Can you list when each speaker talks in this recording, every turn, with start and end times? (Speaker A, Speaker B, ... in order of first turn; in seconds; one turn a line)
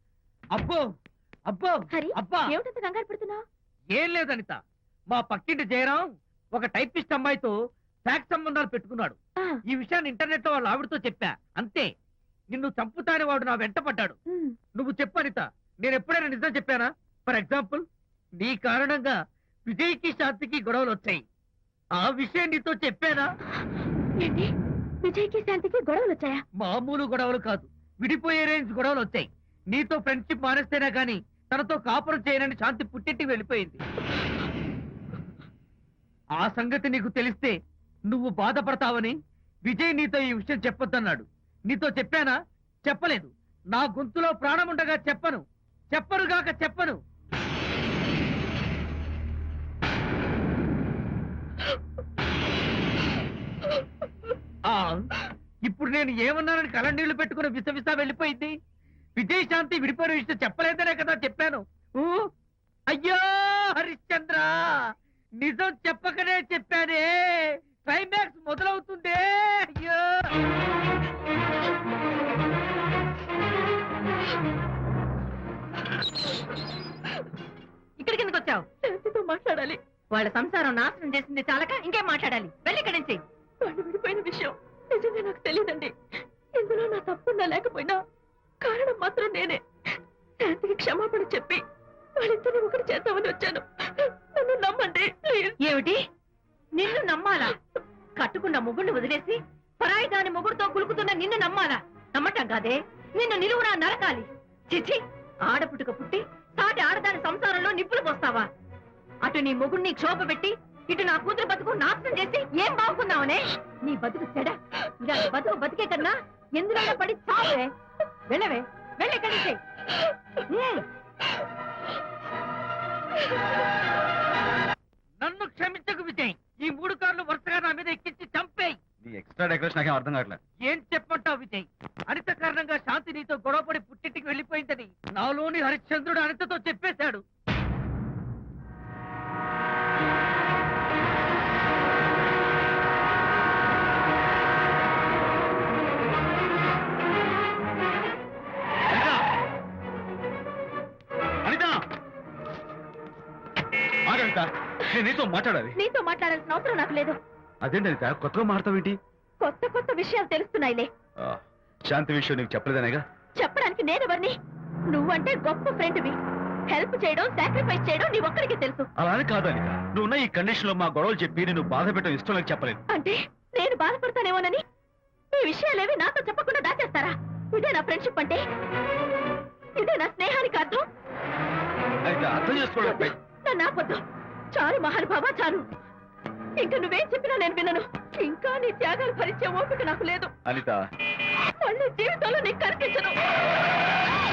Speaker A: 0.5-0.8
Speaker A: 1.5-2.5
Speaker B: 1.9-3.4
Speaker A: 3.9-4.6
Speaker A: 5.1-7.5
Speaker A: 8.1-9.2
Speaker A: 9.7-11.9
Speaker A: 12.5-14.2
Speaker B: 14.3-14.6
Speaker A: 14.7-17.8
Speaker A: 18.4-21.2
Speaker A: 22.0-23.3
Speaker B: 24.2-24.5
Speaker B: 25.0-26.4
Speaker A: 26.6-33.8
Speaker A: 36.4-37.5
Speaker A: 38.1-47.0
Speaker A: 54.6-58.5
Speaker A: 59.2-62.3
Speaker A: 62.9-70.3
Speaker C: 78.0-78.7
Speaker B: 78.8-79.8
Speaker C: 80.1-83.2
Speaker B: 83.6-85.9
Speaker B: 86.5-88.0
Speaker B: 88.6-89.6
Speaker B: 90.4-91.6
Speaker B: 92.2-95.6
Speaker C: 95.6-96.0
Speaker C: 96.8-97.5
Speaker C: 98.2-108.5
Speaker C: 109.2-117.7
Speaker C: 118.3-119.6
Speaker C: 120.5-120.8
Speaker A: 125.2-128.8
Speaker D: 129.0-130.4
Speaker A: 130.6-137.2
Speaker D: 148.9-149.2
Speaker D: 151.4-151.8
Speaker D: 154.1-155.8
Speaker B: 155.8-157.2
Speaker D: 157.6-159.0
Speaker B: 159.4-160.9
Speaker D: 161.2-163.0
Speaker B: 163.4-166.2
Speaker B: 166.7-168.9
Speaker D: 168.9-172.8
Speaker B: 172.9-174.6
Speaker B: 175.3-178.4
Speaker B: 179.8-180.9
Speaker D: 182.0-183.1
Speaker B: 182.7-184.0
Speaker B: 184.5-185.7
Speaker B: 186.6-190.3
Speaker D: 190.4-190.8
Speaker B: 191.6-193.2